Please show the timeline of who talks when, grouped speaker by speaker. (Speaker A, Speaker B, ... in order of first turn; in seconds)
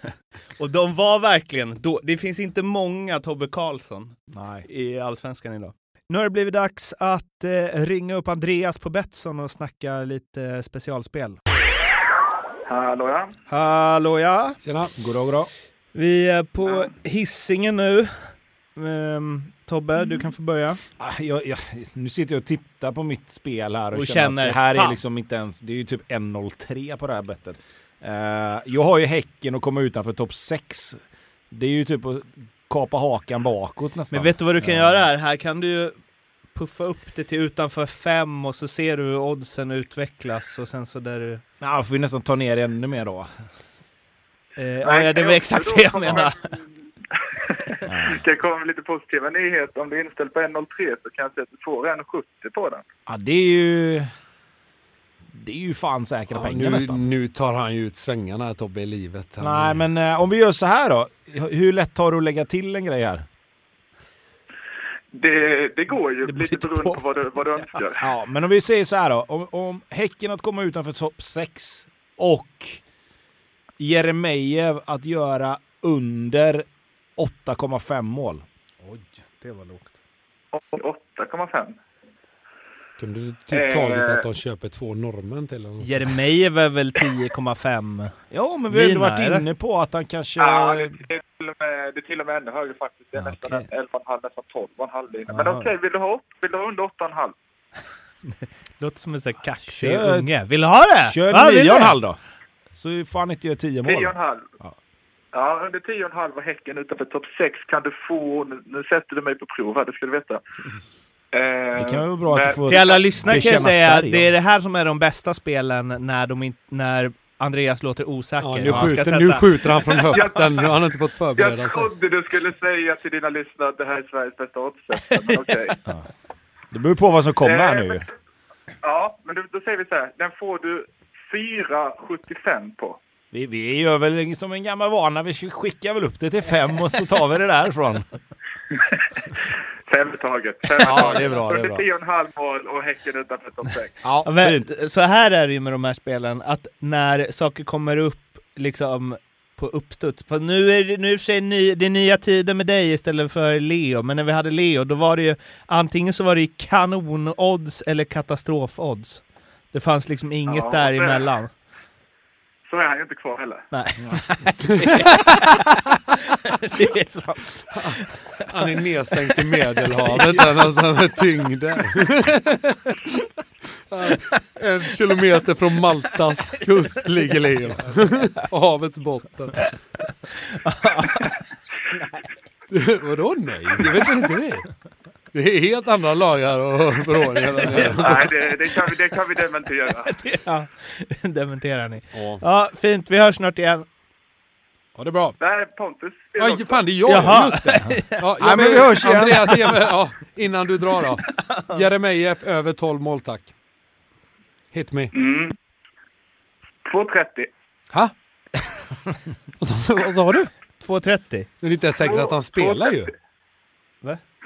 Speaker A: 0.6-11.4, 13.5-14.6, 15.9-20.8, 23.9-25.0, 34.1-41.4, 44.6-46.4, 78.8-80.0, 85.8-89.4, 93.2-93.7, 95.3-95.7, 98.8-102.0, 112.7-119.7, 144.2-161.5, 163.7-165.5, 166.4-168.5, 170.0-170.8, 180.6-181.4, 187.7-188.0, 190.0-193.9, 197.1-198.2, 201.4-201.8, 210.8-211.5
Speaker B: 4.3-4.7, 15.0-15.5, 21.0-35.0, 41.6-43.3, 47.9-48.2, 53.1-54.1, 55.3-57.0, 59.4-63.2, 66.2-72.8, 73.8-78.5, 88.3-91.0, 99.7-100.3, 101.1-102.2, 102.7-104.8, 111.7-114.3, 118.6-119.0, 126.7-128.1, 133.3-138.1, 140.8-141.8, 144.0-144.7, 198.4-199.6
Speaker C: 12.7-13.3, 44.8-46.6, 47.6-52.8, 65.1-68.1, 80.5-81.8, 83.5-84.2, 90.4-97.4, 103.8-104.5, 105.3-110.4, 111.3-113.6, 120.1-120.6, 121.4-125.8, 127.4-128.0, 128.8-133.0, 139.9-144.1, 160.5-161.3, 162.7-163.7, 188.0-190.2, 195.4-197.3, 205.1-205.6, 206.8-207.5, 212.0-213.1
Speaker D: 14.6-14.9, 56.3-59.9, 83.0-86.0, 118.4-121.9, 164.8-165.3, 167.7-173.0, 173.9-179.8, 182.7-184.7, 185.3-188.4, 192.1-192.4, 194.9-195.4, 196.4-203.5, 204.7-205.1, 209.6-210.5, 211.6-213.1